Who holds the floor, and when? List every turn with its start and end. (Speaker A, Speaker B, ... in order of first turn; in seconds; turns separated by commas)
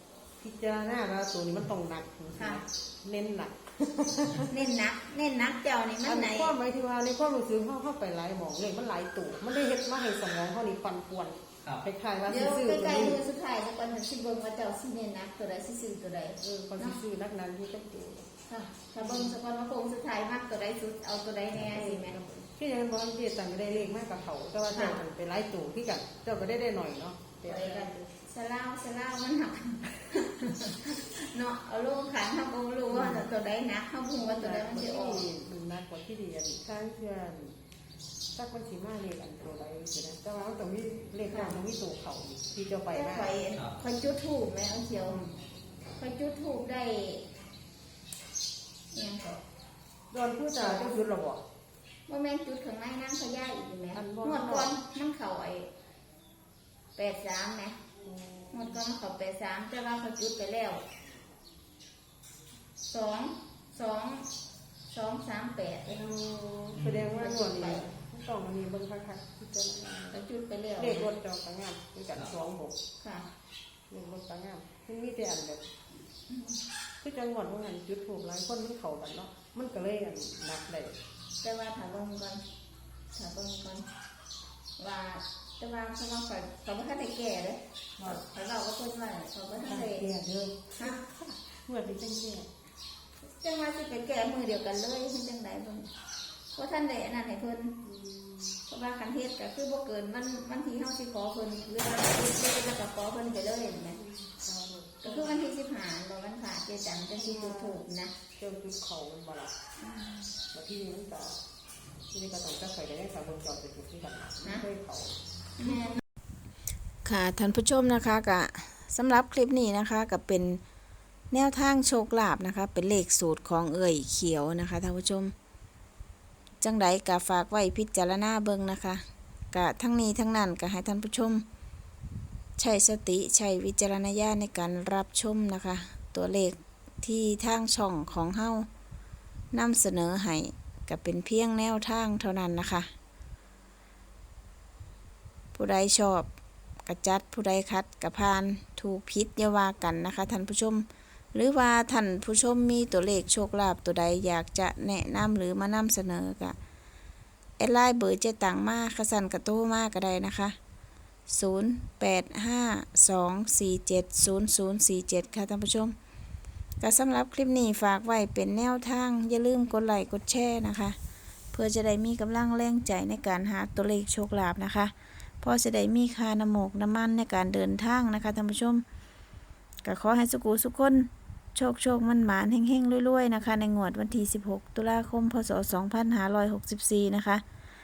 Speaker A: 0.4-4.6, Speaker B: 2.3-2.6, Speaker B: 4.5-6.5, Speaker A: 6.0-13.2, Speaker B: 12.3-17.0, Speaker A: 16.4-18.2, Speaker B: 18.5-22.2, Speaker A: 19.0-19.4, Speaker A: 21.7-27.9, Speaker B: 24.7-25.0, Speaker B: 27.4-35.3, Speaker A: 32.9-33.3, Speaker A: 34.1-37.5, Speaker A: 38.4-43.4, Speaker B: 41.3-41.6, Speaker B: 42.9-45.3, Speaker B: 46.0-47.2, Speaker B: 48.9-49.4, Speaker A: 50.1-51.4, Speaker B: 50.5-51.0, Speaker B: 52.1-55.7, Speaker A: 53.9-54.7, Speaker B: 57.0-57.8, Speaker A: 58.0-58.8, Speaker B: 58.5-60.8, Speaker B: 62.9-64.3, Speaker B: 64.9-66.0, Speaker A: 65.9-70.2, Speaker B: 67.0-67.9, Speaker B: 70.1-71.1, Speaker A: 70.8-72.8, Speaker B: 73.0-73.3, Speaker A: 73.9-75.6, Speaker B: 76.3-76.6, Speaker A: 77.0-81.0, Speaker B: 81.4-82.4, Speaker B: 83.1-83.9, Speaker B: 84.8-90.1, Speaker A: 88.0-88.2, Speaker A: 89.6-92.5, Speaker B: 93.4-95.9, Speaker B: 96.5-97.8, Speaker A: 97.8-98.6, Speaker B: 98.7-104.0, Speaker A: 104.0-105.4, Speaker B: 105.0-108.1, Speaker A: 107.1-107.8, Speaker A: 108.4-109.5, Speaker B: 109.8-110.3, Speaker A: 110.5-111.4, Speaker A: 112.1-115.2, Speaker B: 114.4-114.7, Speaker B: 115.6-116.0, Speaker C: 117.0-120.6, Speaker C: 121.3-125.3, Speaker C: 126.6-131.4, Speaker C: 132.6-138.7, Speaker C: 139.5-142.9, Speaker C: 145.5-146.3, Speaker C: 146.8-156.6, Speaker C: 157.6-160.6, Speaker C: 161.3-165.9, Speaker C: 166.8-170.9, Speaker C: 171.5-178.8, Speaker C: 179.8-187.4